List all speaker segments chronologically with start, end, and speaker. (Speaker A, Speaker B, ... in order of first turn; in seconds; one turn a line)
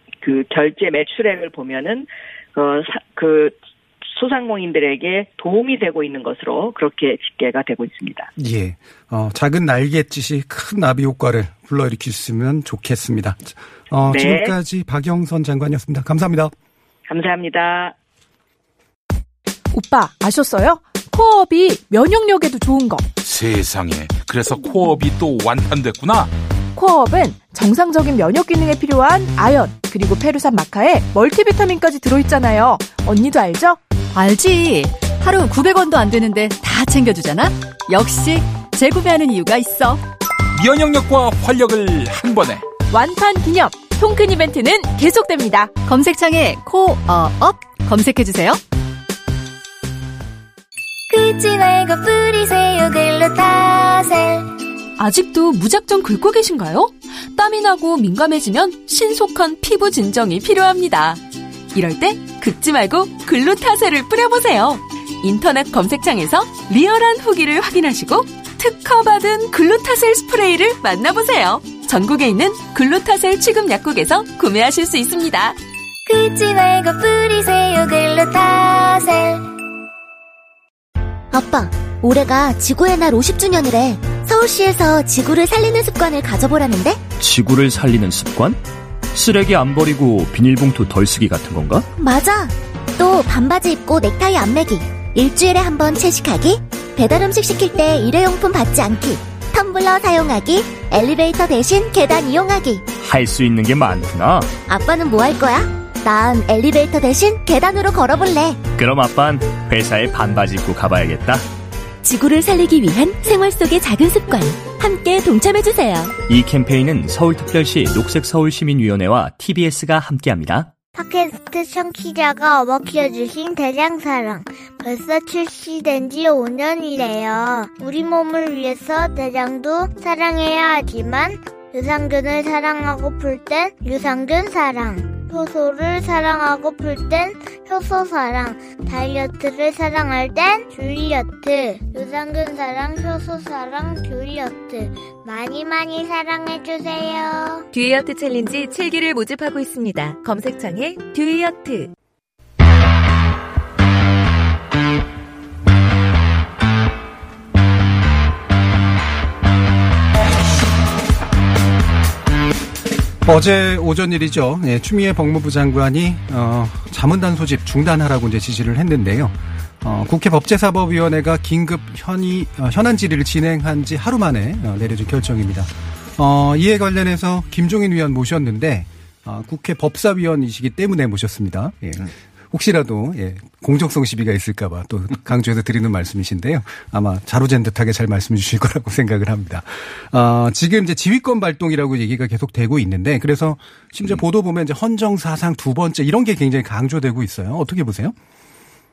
Speaker A: 0.2-8.3
Speaker B: 8.4-16.5
Speaker A: 14.1-14.6
Speaker A: 17.1-17.9
Speaker C: 19.7-23.1
Speaker D: 23.4-23.7
Speaker D: 24.2-24.5
Speaker D: 25.8-26.1
Speaker C: 26.8-33.8
Speaker E: 34.1-40.0
Speaker D: 40.7-42.3
Speaker C: 42.9-45.9
Speaker E: 45.9-48.5
Speaker F: 51.1-54.5
Speaker G: 55.0-61.2
Speaker G: 61.7-75.6
Speaker F: 76.1-79.5
Speaker H: 81.3-87.0
Speaker I: 87.2-88.6
Speaker I: 89.1-91.8
Speaker H: 92.0-102.9
Speaker I: 103.0-104.6
Speaker H: 104.6-108.7
Speaker I: 108.7-111.5
Speaker H: 112.0-116.2
Speaker I: 116.3-120.7
Speaker J: 121.0-147.7
Speaker K: 147.7-151.9
Speaker B: 163.2-198.2